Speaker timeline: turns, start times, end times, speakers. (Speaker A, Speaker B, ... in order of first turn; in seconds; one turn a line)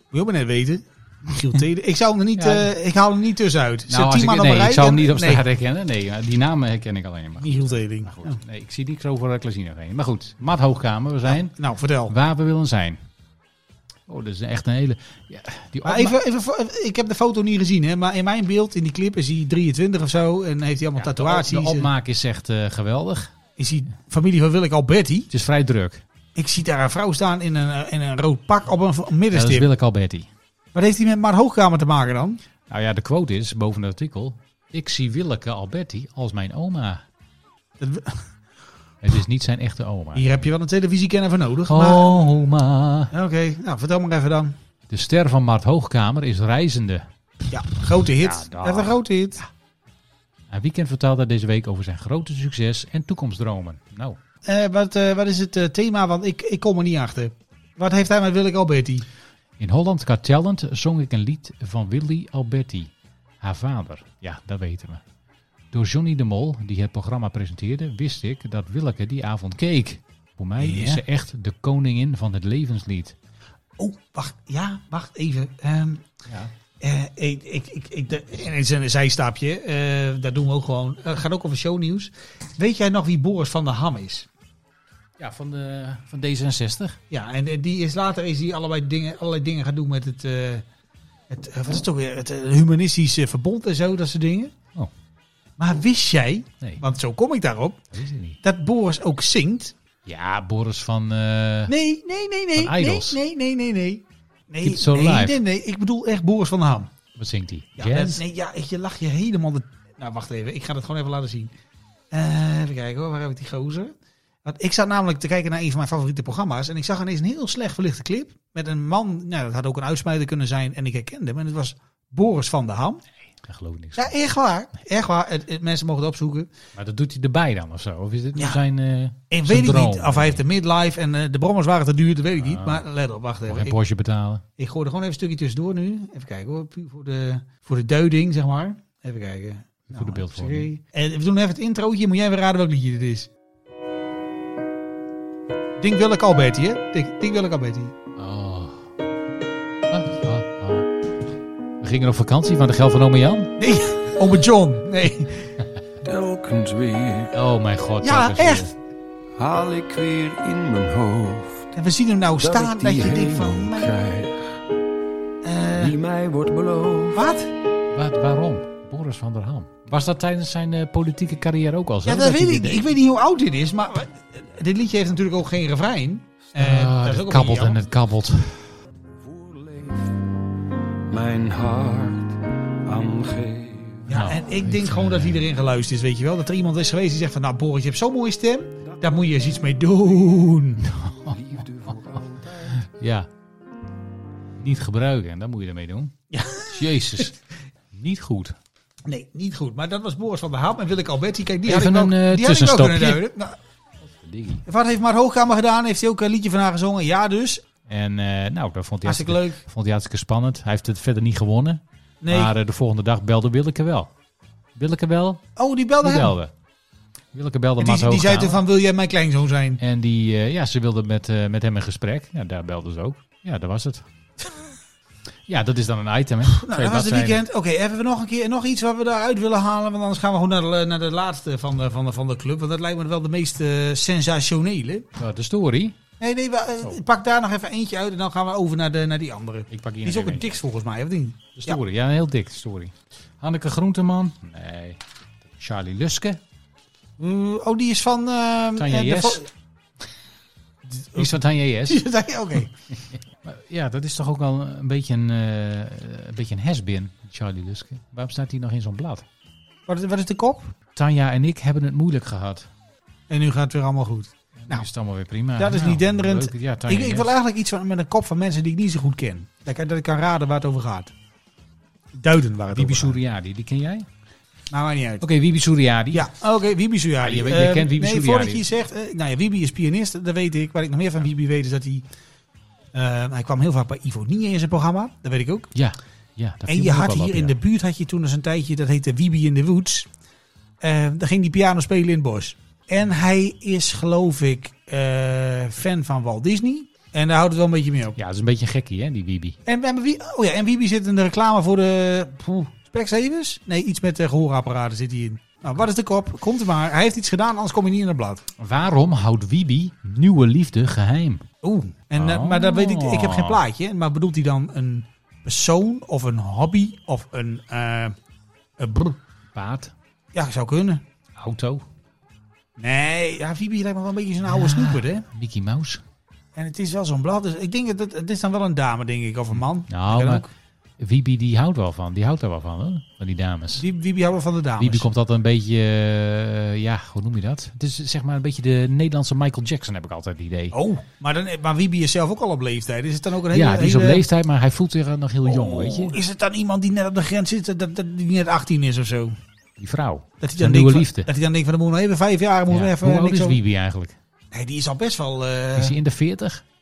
Speaker A: 0.1-5.4
Speaker B: 2.4-2.7
Speaker B: 3.9-11.5
Speaker A: 7.4-8.4
Speaker A: 11.3-12.1
Speaker B: 12.1-13.0
Speaker B: 14.1-16.2
Speaker A: 15.8-21.9
Speaker B: 21.0-23.3
Speaker A: 23.6-25.3
Speaker B: 25.3-26.0
Speaker A: 26.3-29.7
Speaker B: 29.3-30.3
Speaker A: 30.7-32.4
Speaker B: 32.7-37.0
Speaker A: 37.8-38.2
Speaker B: 39.0-40.3
Speaker A: 40.1-42.2
Speaker B: 41.7-43.1
Speaker A: 43.1-44.5
Speaker B: 44.9-47.1
Speaker A: 47.5-49.4
Speaker B: 48.2-49.5
Speaker B: 50.5-54.2
Speaker A: 54.4-59.0
Speaker B: 59.6-65.0
Speaker B: 65.7-73.2
Speaker A: 70.6-71.0
Speaker A: 73.8-76.0
Speaker B: 76.3-76.5
Speaker A: 76.8-84.3
Speaker B: 85.2-87.0
Speaker A: 87.1-90.6
Speaker A: 91.3-94.5
Speaker A: 95.6-97.8
Speaker B: 97.9-98.4
Speaker A: 98.4-99.7
Speaker B: 100.0-101.7
Speaker A: 101.7-106.9
Speaker B: 102.5-103.2
Speaker B: 104.6-105.4
Speaker B: 107.2-108.2
Speaker A: 107.8-111.5
Speaker A: 112.1-113.9
Speaker A: 114.4-123.0
Speaker B: 123.4-124.1
Speaker A: 124.0-126.5
Speaker B: 126.8-130.4
Speaker A: 128.3-128.6
Speaker A: 129.3-133.8
Speaker B: 132.4-132.8
Speaker B: 133.5-134.4
Speaker A: 134.6-143.3
Speaker B: 139.9-140.7
Speaker A: 145.8-147.9
Speaker B: 148.2-148.9
Speaker B: 149.9-150.9
Speaker B: 151.8-153.5
Speaker A: 153.6-155.5
Speaker C: 156.0-157.3
Speaker B: 157.3-158.7
Speaker A: 158.0-158.7
Speaker C: 159.4-161.7
Speaker A: 161.8-163.9
Speaker C: 162.4-164.6
Speaker A: 165.4-165.9
Speaker C: 165.8-167.3
Speaker A: 167.1-167.5
Speaker B: 167.9-172.9
Speaker A: 172.0-177.8
Speaker B: 176.5-178.7
Speaker C: 179.2-180.3
Speaker C: 181.1-184.2
Speaker A: 184.1-190.9
Speaker B: 184.1-185.4
Speaker B: 190.8-191.4
Speaker C: 191.2-192.8
Speaker B: 192.7-193.3
Speaker B: 194.6-197.4
Speaker A: 196.3-197.2
Speaker B: 197.9-198.6
Speaker A: 199.0-203.6
Speaker B: 201.6-203.2
Speaker B: 204.1-204.6
Speaker A: 204.7-207.6
Speaker B: 207.9-214.1
Speaker A: 209.0-209.6
Speaker A: 212.2-212.5
Speaker B: 214.8-215.5
Speaker A: 215.6-216.3
Speaker B: 216.0-216.5
Speaker B: 217.3-218.6
Speaker A: 217.8-219.8
Speaker B: 219.8-224.1
Speaker B: 225.5-227.4
Speaker A: 226.4-235.1
Speaker B: 235.2-236.0
Speaker A: 236.2-241.8
Speaker B: 239.7-240.6
Speaker B: 241.6-246.4
Speaker A: 247.2-249.5
Speaker B: 248.8-249.4
Speaker A: 250.8-252.7
Speaker B: 251.1-252.0
Speaker B: 253.0-259.2
Speaker A: 259.9-260.7
Speaker B: 260.9-262.7
Speaker A: 263.3-264.9
Speaker B: 264.6-267.3
Speaker A: 265.6-271.1
Speaker A: 272.1-273.2
Speaker B: 272.7-274.1
Speaker A: 274.7-275.3
Speaker B: 275.2-276.3
Speaker A: 276.1-282.1
Speaker B: 277.2-278.6
Speaker A: 282.9-285.7
Speaker B: 285.7-287.6
Speaker A: 286.7-290.1
Speaker A: 290.8-298.2
Speaker B: 298.2-299.6
Speaker A: 299.6-308.4
Speaker B: 308.6-311.4
Speaker A: 311.6-318.1
Speaker B: 312.1-313.6
Speaker A: 318.8-319.2
Speaker B: 319.5-319.9
Speaker A: 320.3-321.0
Speaker B: 321.4-321.8
Speaker A: 322.8-325.2
Speaker B: 324.4-326.0
Speaker A: 326.5-330.5
Speaker B: 329.9-330.4
Speaker B: 331.0-333.8
Speaker A: 333.8-335.1
Speaker B: 334.8-340.8
Speaker A: 340.7-344.2
Speaker B: 343.5-346.2
Speaker A: 345.4-349.3
Speaker B: 349.8-351.3
Speaker A: 350.4-353.6
Speaker B: 352.7-354.2
Speaker A: 354.5-355.9
Speaker B: 355.7-356.6